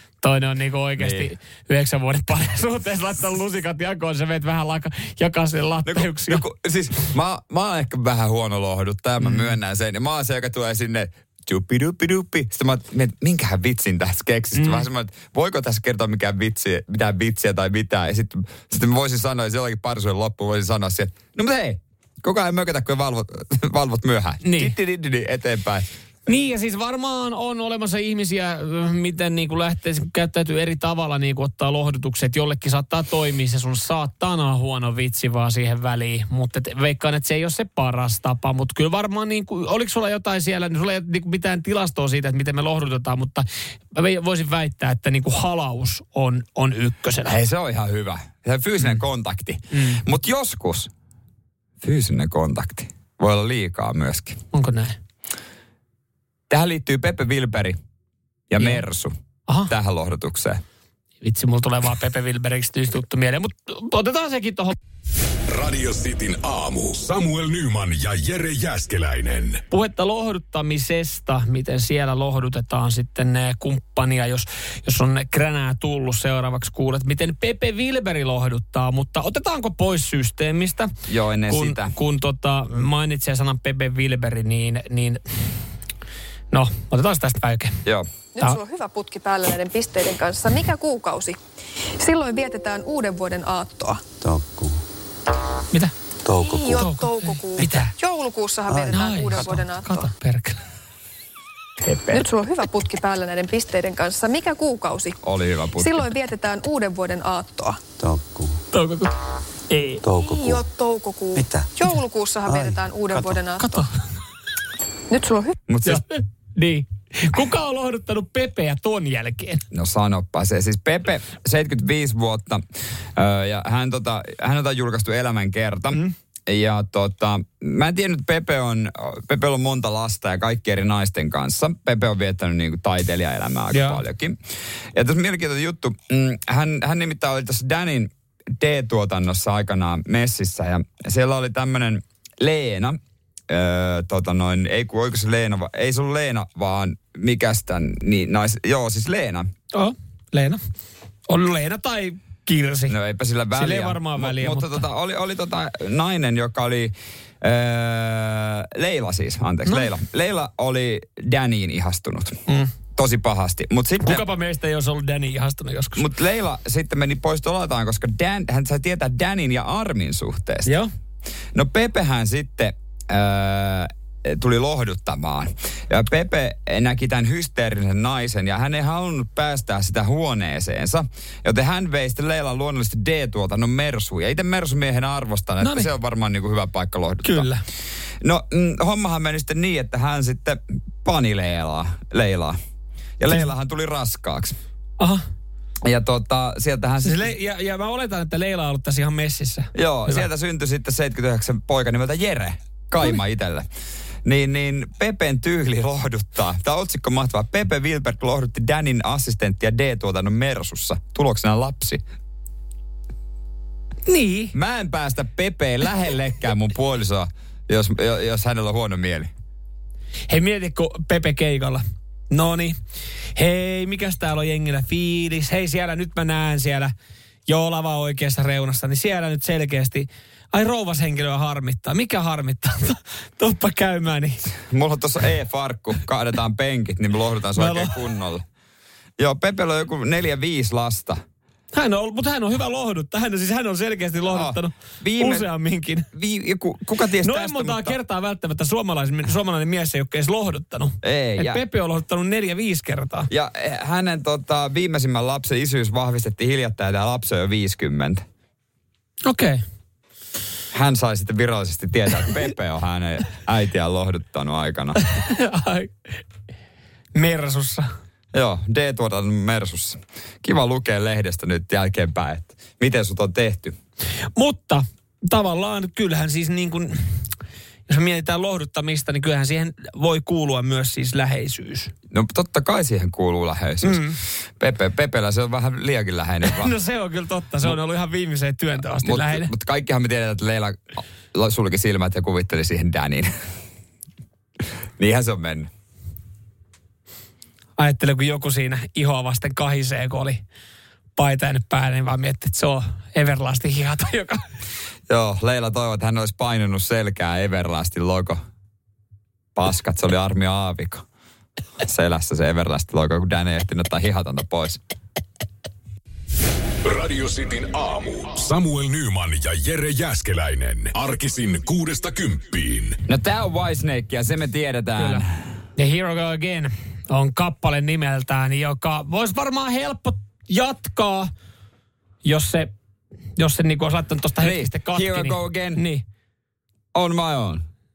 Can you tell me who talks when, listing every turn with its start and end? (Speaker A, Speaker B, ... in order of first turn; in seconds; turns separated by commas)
Speaker A: 0.2-6.4, Speaker B: 1.0-1.3, Speaker B: 5.8-25.9, Speaker A: 9.2-9.5, Speaker A: 14.6-14.9, Speaker A: 24.4-24.7, Speaker A: 26.3-47.3, Speaker B: 47.2-50.9, Speaker A: 49.7-50.0, Speaker B: 51.8-54.4, Speaker A: 54.5-55.0, Speaker B: 56.5-57.8, Speaker B: 58.5-59.1, Speaker A: 59.5-59.7, Speaker B: 59.7-60.6, Speaker A: 61.2-64.8, Speaker C: 65.5-69.6, Speaker A: 69.7-80.9, Speaker B: 81.1-81.9, Speaker A: 81.5-85.2, Speaker A: 86.5-87.8, Speaker D: 88.3-91.4, Speaker D: 92.0-94.0, Speaker E: 94.2-94.8, Speaker E: 96.2-96.9, Speaker D: 96.4-100.0, Speaker A: 96.7-97.9, Speaker E: 98.7-99.6, Speaker A: 98.9-100.6, Speaker B: 101.8-102.2, Speaker D: 102.1-105.2, Speaker B: 105.2-106.1, Speaker D: 105.8-107.8, Speaker E: 108.0-108.6, Speaker A: 108.7-109.1, Speaker A: 109.7-110.0, Speaker E: 110.0-110.6, Speaker D: 110.2-113.7, Speaker E: 111.3-111.7, Speaker E: 112.5-113.4, Speaker A: 113.6-113.9, Speaker D: 115.1-115.6, Speaker B: 115.7-116.0, Speaker A: 115.8-119.6, Speaker B: 119.7-122.6, Speaker B: 123.2-134.4, Speaker A: 133.7-134.0, Speaker B: 134.9-149.5, Speaker A: 149.7-150.6, Speaker A: 151.3-152.9, Speaker B: 152.9-162.4, Speaker A: 153.5-154.8, Speaker B: 162.9-164.2, Speaker A: 164.0-166.0, Speaker B: 165.9-170.7, Speaker B: 171.5-187.5, Speaker A: 185.6-185.9, Speaker A: 187.2-187.6, Speaker B: 188.2-192.6, Speaker B: 193.2-194.6, Speaker B: 195.8-197.3, Speaker A: 197.0-200.3, Speaker B: 199.7-203.7, Speaker B: 204.2-212.0, Speaker A: 214.1-214.5, Speaker B: 214.5-219.3, Speaker A: 220.3-222.8, Speaker A: 223.3-226.9, Speaker A: 227.5-234.5, Speaker B: 234.6-238.4, Speaker A: 237.6-237.9, Speaker B: 239.2-241.2, Speaker A: 241.7-246.1, Speaker B: 244.3-245.5, Speaker B: 246.1-247.9, Speaker A: 247.2-253.3, Speaker B: 251.0-251.6, Speaker B: 253.3-258.2, Speaker A: 259.2-259.6, Speaker B: 260.7-265.0, Speaker A: 265.0-265.9, Speaker A: 267.1-267.9, Speaker B: 268.3-273.8, Speaker A: 274.4-277.1, Speaker A: 277.9-281.9, Speaker B: 282.1-286.8, Speaker A: 283.8-284.2, Speaker A: 286.4-289.5, Speaker B: 289.0-293.3, Speaker B: 295.0-295.7, Speaker A: 297.8-300.4, Speaker A: 301.2-304.4, Speaker B: 305.1-308.4, Speaker B: 309.6-311.0, Speaker B: 311.8-314.8, Speaker C: 316.8-323.0, Speaker B: 323.1-325.2, Speaker A: 325.0-325.2, Speaker A: 325.8-331.3, Speaker A: 332.2-332.7, Speaker A: 333.4-336.0, Speaker B: 334.4-335.8, Speaker B: 336.9-337.6